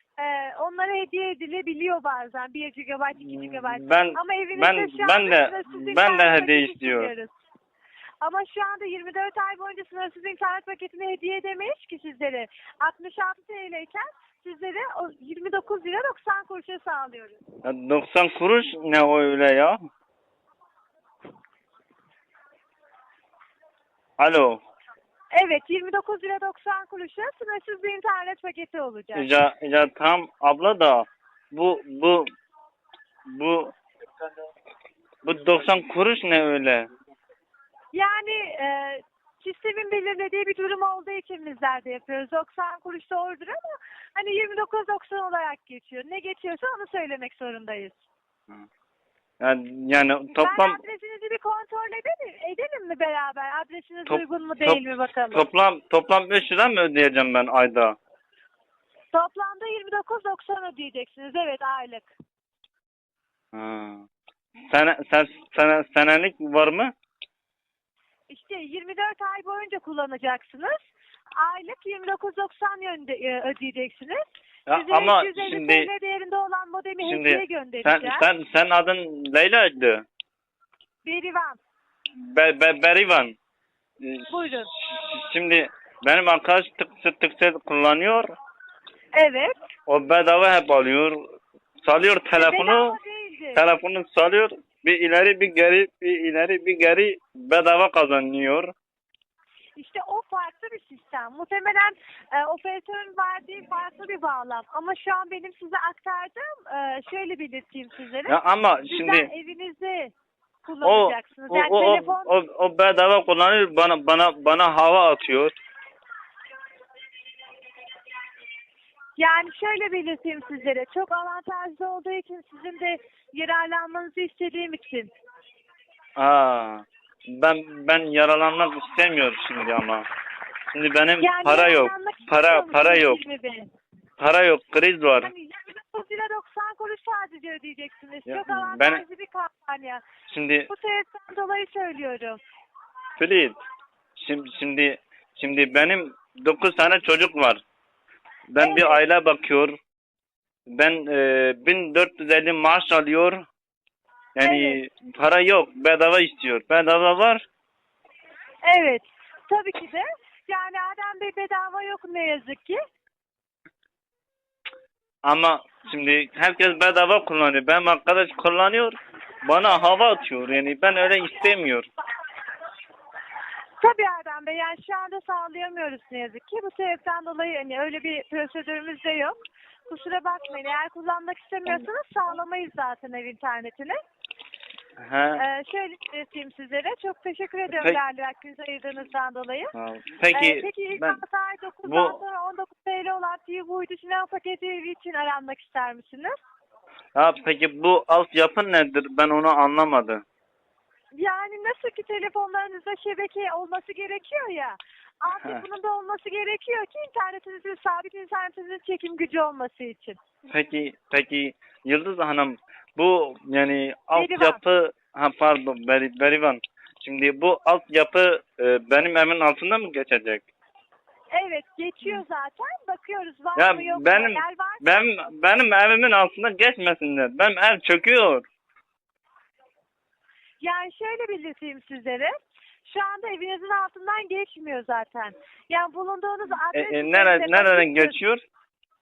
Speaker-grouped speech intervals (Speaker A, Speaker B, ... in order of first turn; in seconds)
Speaker A: 0.2-7.3, 8.2-17.4, 25.3-29.3, 37.9-48.0, 50.3-55.4, 59.1-62.1, 68.3-70.8, 71.4-78.2, 81.0-81.6, 84.3-84.7, 89.1-89.5, 92.3-93.6, 99.8-110.1, 110.6-112.3, 119.2-125.1, 131.2-133.7, 135.2-140.0, 140.7-142.4, 148.6-149.0, 154.4-154.8, 158.6-162.8, 173.8-179.4, 179.9-183.9, 185.4-189.7, 190.3-196.3, 201.1-210.2, 214.1-214.6, 221.3-225.0, 230.6-232.3, 232.8-238.1
Speaker B: 3.2-7.1, 17.6-19.8, 24.2-24.6, 29.1-32.2, 33.3-33.7, 35.2-36.9, 49.4-50.8, 54.1-54.8, 55.3-58.0, 63.5-64.0, 64.7-66.9, 74.7-75.9, 77.0-80.0, 82.2-83.4, 84.0-88.3, 89.9-91.1, 91.8-92.9, 93.5-98.7, 108.3-109.3, 110.8-115.5, 126.2-130.1, 130.7-133.2, 134.2-135.3, 138.3-139.0, 140.3-140.7, 143.2-143.6, 144.2-147.6, 148.5-149.7, 150.7-153.4, 154.3-157.4, 165.2-171.9, 185.0-185.4, 187.7-188.0, 189.7-191.2, 191.9-192.2, 197.2-200.2, 205.3-205.6, 210.5-220.4, 223.6-228.4, 236.7-238.4